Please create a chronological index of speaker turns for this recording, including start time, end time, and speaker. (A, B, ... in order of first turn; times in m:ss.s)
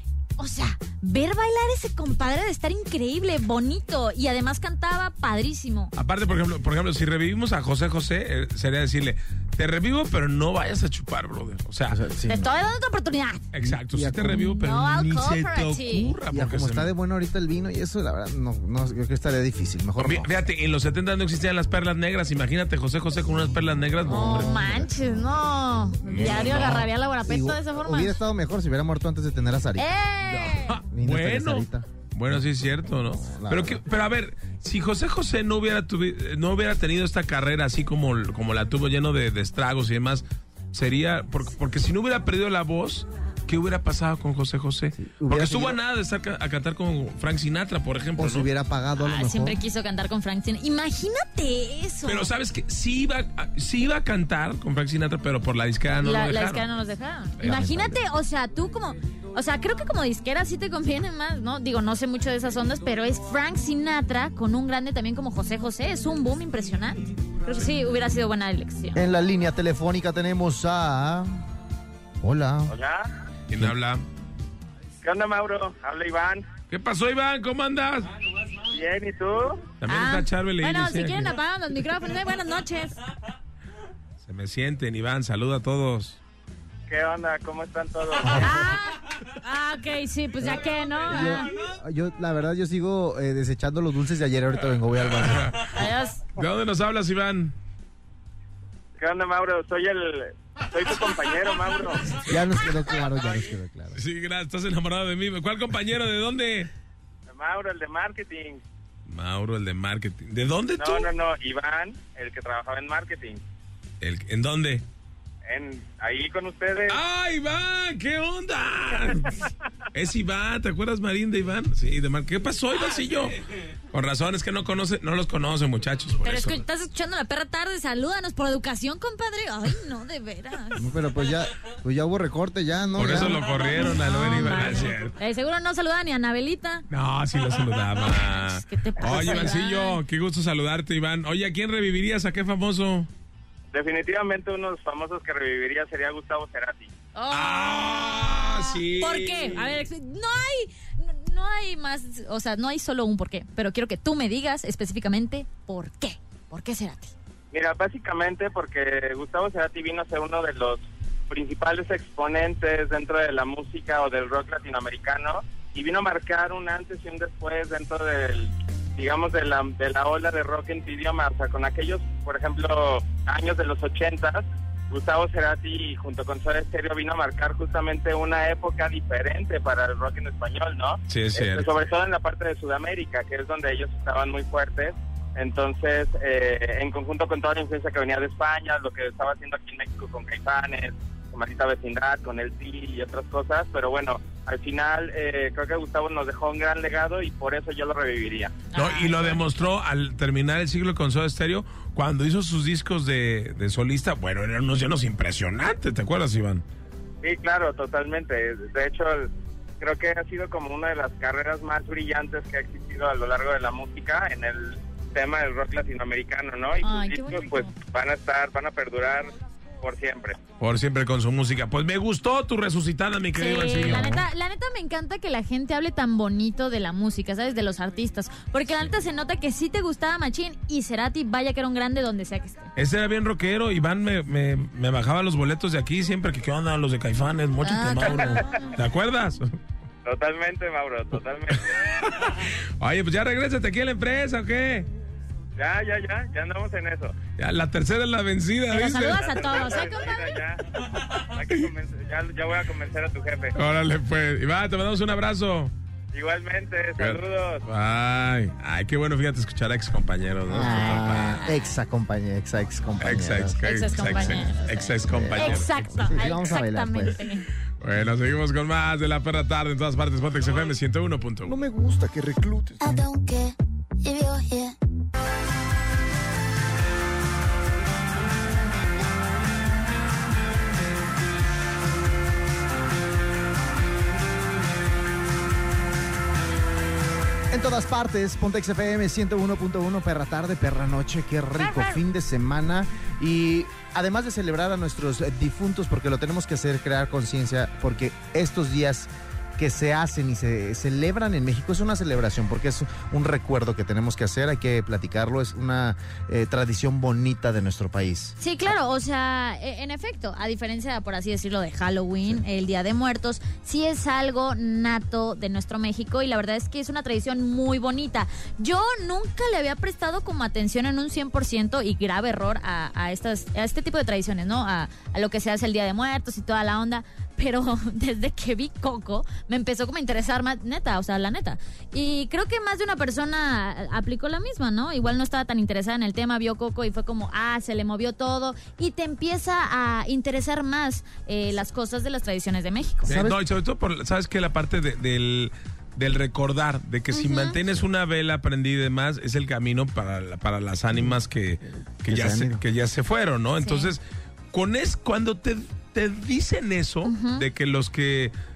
0:00.4-0:05.9 A
0:05.9-0:12.0 B
0:11.9-0:12.5 C
0:12.3-0:13.5 A
0:13.5-0:16.9 B
0:13.6-0:14.5 C
0:14.4-0:16.2 A
0:16.2-0:20.3 C
0:20.0-0:24.6 B
0:24.0-0:24.9 C
0:24.0-0:28.2 A
0:26.0-0:26.9 B
0:26.3-0:26.6 C
0:27.2-0:29.9 C
0:29.8-0:30.8 A
0:30.2-0:48.5 B
0:30.9-0:31.8 C
0:33.1-0:33.8 C
0:44.9-0:45.8 C
0:48.2-0:49.6 C
0:49.0-0:52.3 A
0:52.0-0:56.7 B
0:56.0-1:09.0 A
0:57.4-0:57.7 B
0:57.4-0:58.0 C
1:08.9-1:11.4 C
1:12.2-1:12.7 C
1:12.7-1:13.1 D
1:13.5-1:14.0 B
1:15.0-1:16.5 D
1:16.7-1:18.1 B
1:18.7-1:19.6 D
1:19.8-1:21.4 B
1:19.9-1:23.0 A
1:24.2-1:26.2 B
1:26.9-1:28.3 D
1:28.2-1:28.5 C
1:28.2-1:31.5 A
1:30.4-1:35.7 C
1:34.9-1:35.8 B
1:35.7-1:36.3 A
1:36.4-1:37.5 B
1:39.0-1:42.1 D
1:42.2-1:44.0 C
1:43.9-1:46.7 B
1:47.3-1:48.6 D
1:49.1-1:51.1 B
1:50.8-1:53.4 D
1:54.0-1:54.8 B
1:55.5-1:57.0 D
1:56.9-1:59.4 B
1:59.9-2:03.4 B
2:03.9-2:06.6 B
2:06.2-2:10.8 A
2:10.8-2:13.5 C
2:13.0-2:15.1 B
2:13.1-2:16.9 A
2:16.9-2:23.1 B
2:17.8-2:20.0 A
2:23.7-2:26.9 D
2:27.1-2:37.1 A
2:27.3-2:29.8 B
2:37.5-3:18.6 D
3:01.1-3:01.7 B
3:18.7-3:19.4 A
3:18.7-3:26.6 B
3:27.2-3:39.3 D
3:36.8-3:37.8 A
3:39.8-3:40.4 D
3:40.6-3:44.2 B
3:43.3-3:52.7 A
3:52.8-3:59.5 B
3:57.6-3:58.7 A
4:00.0-4:01.8 D
4:02.0-4:04.9 B
4:05.6-4:07.2 D
4:07.4-4:09.6 B
4:08.7-4:10.4 A
4:09.2-4:13.5 D
4:13.5-4:15.7 B
4:16.1-4:17.6 D
4:17.0-4:21.4 B
4:20.5-4:23.6 C
4:20.6-4:21.6 A
4:23.0-4:26.2 B
4:23.6-4:27.4 A
4:25.1-4:27.2 C
4:27.8-4:31.6 B
4:31.4-4:33.0 C
4:32.8-4:34.7 E
4:47.5-5:08.4 C
4:51.6-4:52.0 A
5:08.4-5:43.1 A
5:43.0-5:43.4 C
5:43.1-5:54.0 B
5:47.1-5:47.6 A
5:52.0-5:52.6 C
5:53.6-5:53.9 A
5:54.5-5:58.3 B
5:57.0-5:57.4 A